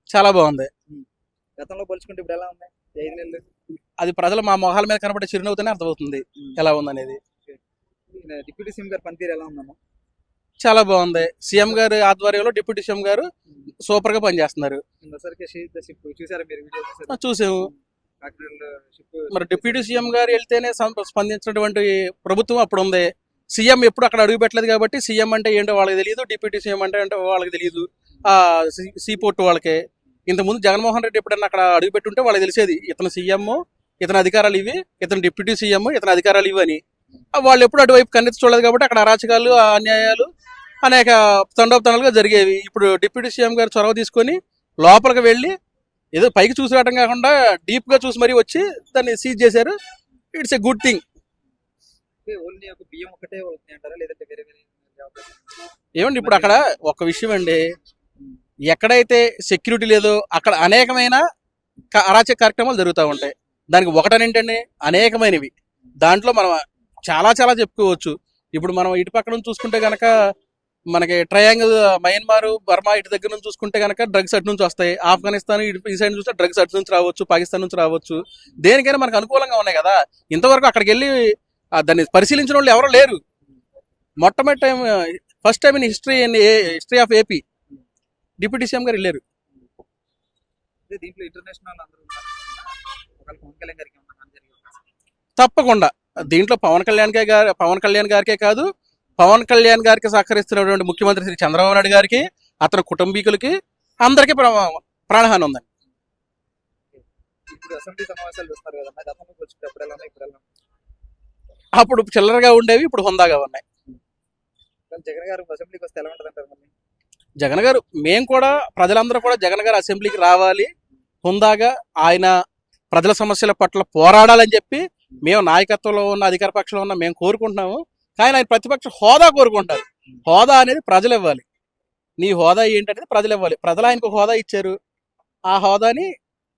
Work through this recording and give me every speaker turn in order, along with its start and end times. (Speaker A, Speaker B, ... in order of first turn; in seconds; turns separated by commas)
Speaker A: 0.1-0.7, Speaker B: 1.6-3.4, Speaker A: 4.0-7.2, Speaker B: 8.1-9.8, Speaker A: 10.6-13.3, Speaker A: 13.8-14.8, Speaker B: 15.0-20.2, Speaker A: 17.1-17.7, Speaker A: 19.3-36.8, Speaker A: 37.4-40.3, Speaker A: 40.8-45.5, Speaker A: 46.1-49.8, Speaker A: 50.3-51.0, Speaker B: 52.2-55.5, Speaker A: 56.0-57.6, Speaker B: 56.2-56.6, Speaker A: 58.7-61.2, Speaker A: 61.9-65.5, Speaker A: 66.0-70.3, Speaker A: 70.9-81.2, Speaker A: 81.8-83.2, Speaker A: 84.2-87.4, Speaker A: 88.4-89.2, Speaker B: 90.9-94.8, Speaker A: 95.4-98.7, Speaker A: 99.2-105.6, Speaker B: 107.5-110.4, Speaker A: 111.8-113.6, Speaker B: 114.9-116.7, Speaker A: 117.4-120.7, Speaker A: 121.2-122.3, Speaker A: 122.9-131.4, Speaker A: 132.2-134.8, Speaker A: 135.5-136.1